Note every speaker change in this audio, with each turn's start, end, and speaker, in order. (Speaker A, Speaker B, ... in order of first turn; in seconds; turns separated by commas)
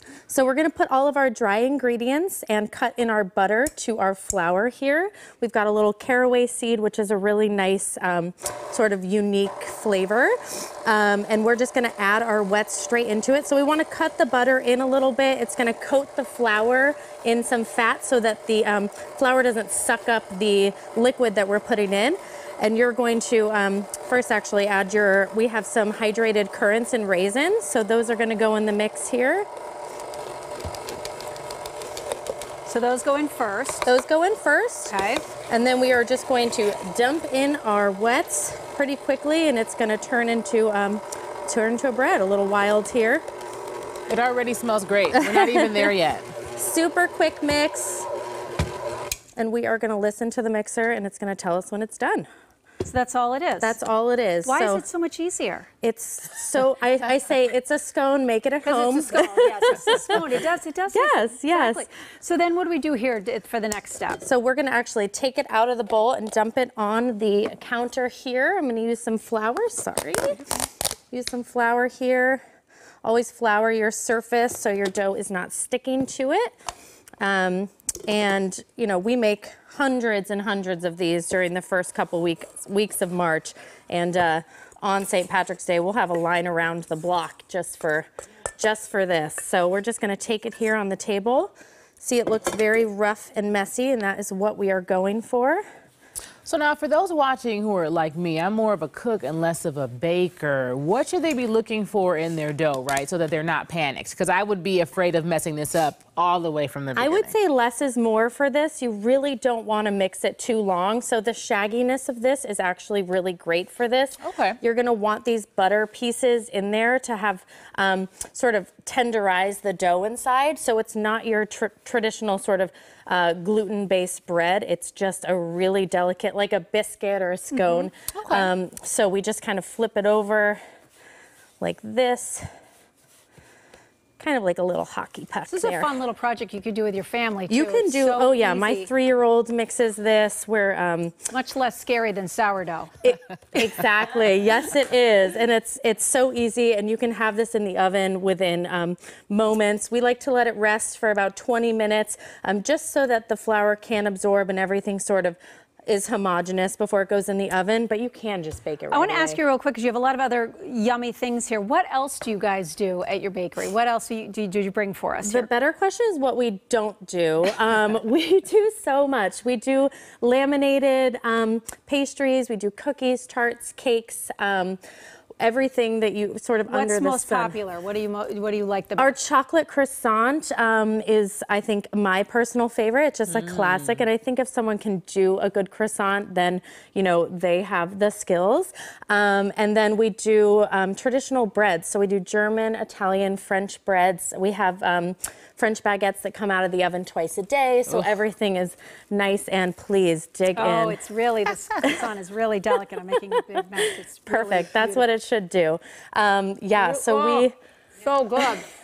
Speaker A: 0.3-29.5, Speaker B: 32.7-33.9, Speaker A: 33.9-34.9, Speaker B: 34.9-35.2, Speaker A: 35.5-43.2, Speaker C: 44.1-46.3, Speaker A: 45.1-45.6, Speaker A: 46.6-48.1, Speaker A: 49.4-52.3, Speaker B: 52.8-53.8, Speaker A: 53.6-54.9, Speaker B: 54.4-55.7, Speaker A: 55.8-60.3, Speaker B: 58.6-64.2, Speaker A: 60.9-61.9, Speaker A: 64.2-70.5, Speaker A: 71.1-72.4, Speaker A: 73.0-76.5, Speaker A: 77.2-95.6, Speaker C: 96.5-107.3, Speaker A: 107.0-130.6, Speaker C: 114.2-114.6, Speaker B: 127.5-128.5, Speaker A: 131.6-132.5, Speaker A: 134.2-136.0, Speaker B: 135.5-138.9, Speaker A: 137.5-141.2, Speaker B: 141.3-143.1, Speaker A: 143.0-159.4, Speaker B: 158.9-165.5, Speaker A: 165.2-174.8, Speaker A: 175.4-177.6, Speaker B: 176.7-179.2, Speaker A: 179.0-201.0, Speaker B: 200.6-205.1, Speaker A: 204.3-207.6, Speaker B: 206.7-207.5, Speaker B: 208.0-208.7